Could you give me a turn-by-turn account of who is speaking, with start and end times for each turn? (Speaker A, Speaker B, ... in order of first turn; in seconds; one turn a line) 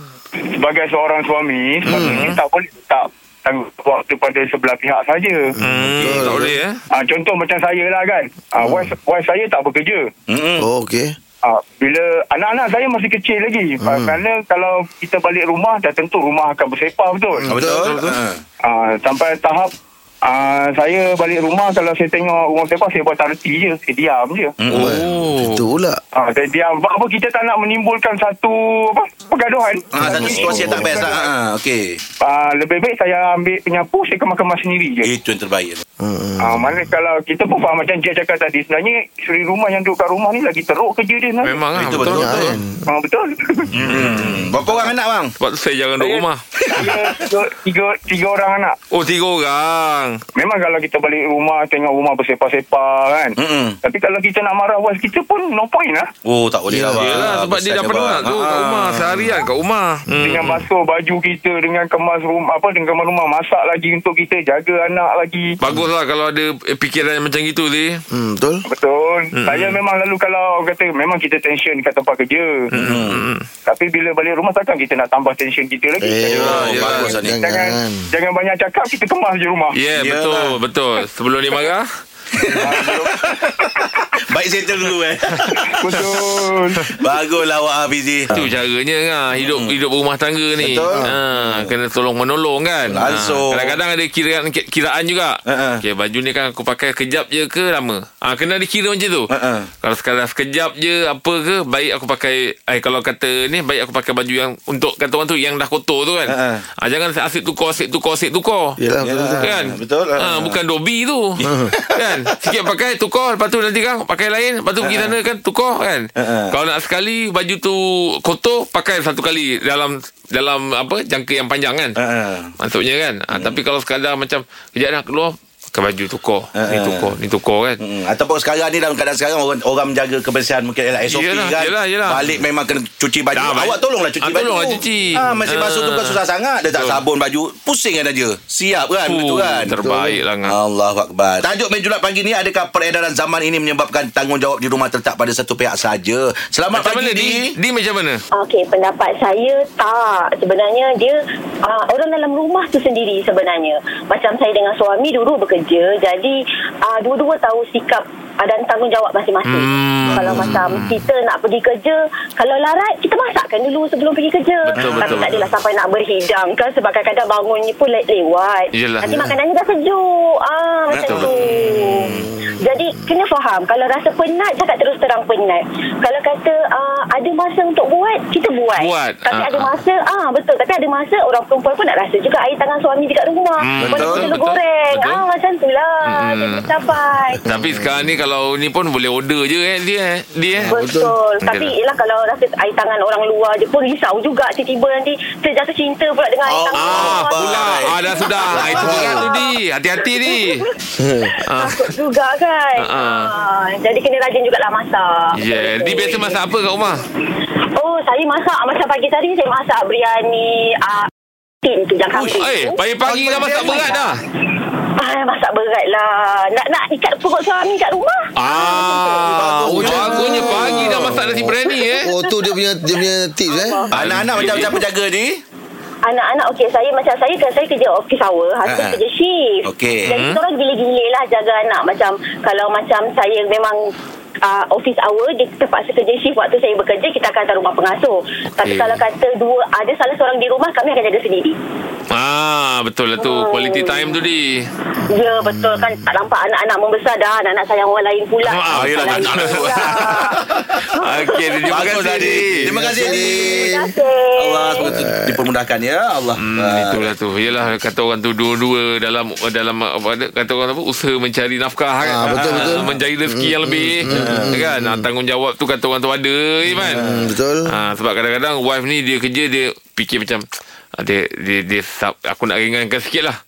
Speaker A: 0.5-5.5
Speaker B: 1.9-2.3
Speaker C: 1.9-2.3
Speaker B: 5.5-6.5
Speaker C: 5.6-6.8
Speaker A: 6.9-10.1
Speaker B: 8.6-8.9
Speaker D: 10.3-10.7
Speaker B: 10.6-11.1
Speaker A: 11.4-17.5
Speaker B: 13.8-14.2
Speaker B: 17.3-18.1
Speaker D: 17.5-18.4
Speaker C: 17.7-18.1
Speaker A: 18.6-19.7
Speaker A: 20.2-24.5
Speaker D: 24.6-25.0
Speaker C: 24.7-25.6
Speaker B: 24.7-26.0
Speaker A: 26.1-31.3
Speaker D: 29.9-32.0
Speaker B: 30.0-31.0
Speaker A: 32.2-35.1
Speaker D: 35.0-35.8
Speaker B: 36.0-36.8
Speaker A: 36.4-41.6
Speaker C: 41.4-42.5
Speaker D: 41.7-42.6
Speaker B: 41.9-42.8
Speaker A: 42.9-43.8
Speaker D: 43.7-45.3
Speaker C: 43.8-44.5
Speaker C: 45.4-46.4
Speaker A: 46.0-48.8
Speaker D: 46.6-47.2
Speaker C: 48.9-50.2
Speaker A: 50.4-56.1
Speaker D: 53.4-53.8
Speaker D: 56.2-59.4
Speaker B: 56.7-57.3
Speaker C: 56.9-60.6
Speaker A: 60.2-65.5
Speaker C: 65.6-68.0
Speaker B: 68.1-68.6
Speaker A: 68.6-72.7
Speaker C: 69.3-69.8
Speaker C: 72.7-73.4
Speaker D: 72.7-73.2
Speaker A: 73.7-79.8
Speaker B: 76.0-78.1
Speaker D: 76.2-77.4
Speaker C: 76.3-77.0
Speaker C: 79.7-81.9
Speaker D: 79.9-80.5
Speaker D: 82.3-86.1
Speaker A: 82.5-83.6
Speaker A: 85.7-86.9
Speaker D: 86.9-88.5
Speaker C: 88.3-99.3
Speaker D: 89.3-89.7
Speaker D: 90.6-91.7
Speaker D: 92.9-93.8
Speaker D: 95.5-95.8
Speaker D: 99.3-99.7
Speaker C: 99.8-108.8
Speaker D: 106.3-106.6
Speaker B: 108.8-109.5
Speaker D: 109.0-110.6
Speaker C: 109.4-122.0
Speaker D: 111.4-112.2
Speaker B: 111.4-111.7
Speaker D: 114.8-115.2
Speaker D: 116.2-116.5
Speaker D: 122.0-122.5
Speaker C: 122.6-127.8
Speaker D: 123.3-123.6
Speaker D: 126.5-127.1
Speaker D: 127.8-147.5
Speaker C: 131.1-132.4
Speaker C: 133.3-137.0
Speaker C: 139.0-140.6
Speaker C: 146.7-148.2
Speaker E: 148.3-187.4
Speaker C: 159.4-161.0
Speaker D: 160.0-160.7
Speaker C: 164.7-165.4
Speaker D: 164.8-165.4
Speaker C: 168.7-169.3
Speaker D: 170.9-172.3
Speaker C: 171.0-172.2
Speaker C: 178.8-179.7
Speaker C: 183.6-185.2
Speaker D: 183.8-184.3
Speaker C: 186.0-186.7
Speaker C: 187.4-190.7
Speaker B: 187.5-188.1
Speaker B: 190.7-191.1
Speaker E: 190.7-199.5
Speaker C: 191.4-191.7
Speaker D: 196.4-197.9
Speaker C: 196.8-200.7
Speaker D: 198.5-199.2
Speaker B: 198.7-199.2
Speaker E: 200.1-200.8
Speaker B: 201.0-201.3
Speaker E: 201.3-206.4
Speaker C: 201.4-201.9
Speaker C: 202.8-203.3
Speaker C: 205.3-207.0
Speaker E: 207.7-211.1
Speaker E: 211.6-212.8
Speaker C: 212.1-214.2
Speaker D: 213.0-214.0
Speaker E: 213.3-214.0
Speaker E: 215.0-219.3
Speaker C: 218.4-222.1
Speaker D: 219.2-221.2
Speaker B: 219.7-223.9
Speaker E: 221.6-224.8
Speaker D: 223.9-225.4
Speaker C: 223.9-224.8
Speaker E: 226.0-233.9
Speaker D: 228.6-229.0
Speaker D: 229.6-230.2
Speaker C: 230.1-230.4
Speaker E: 234.4-241.6
Speaker C: 238.6-239.0
Speaker C: 242.1-244.7
Speaker E: 243.2-244.2
Speaker E: 245.1-250.4
Speaker C: 248.4-249.9
Speaker D: 248.7-250.9
Speaker E: 250.9-252.0
Speaker C: 251.0-252.7
Speaker D: 251.7-253.8
Speaker B: 252.6-253.9
Speaker E: 253.0-254.9
Speaker D: 254.4-257.1
Speaker B: 254.8-255.5
Speaker C: 256.4-267.0
Speaker B: 262.0-265.1
Speaker D: 262.3-262.9
Speaker D: 264.1-264.6
Speaker D: 266.7-267.3
Speaker B: 266.8-267.7
Speaker C: 267.6-270.4
Speaker C: 271.0-273.4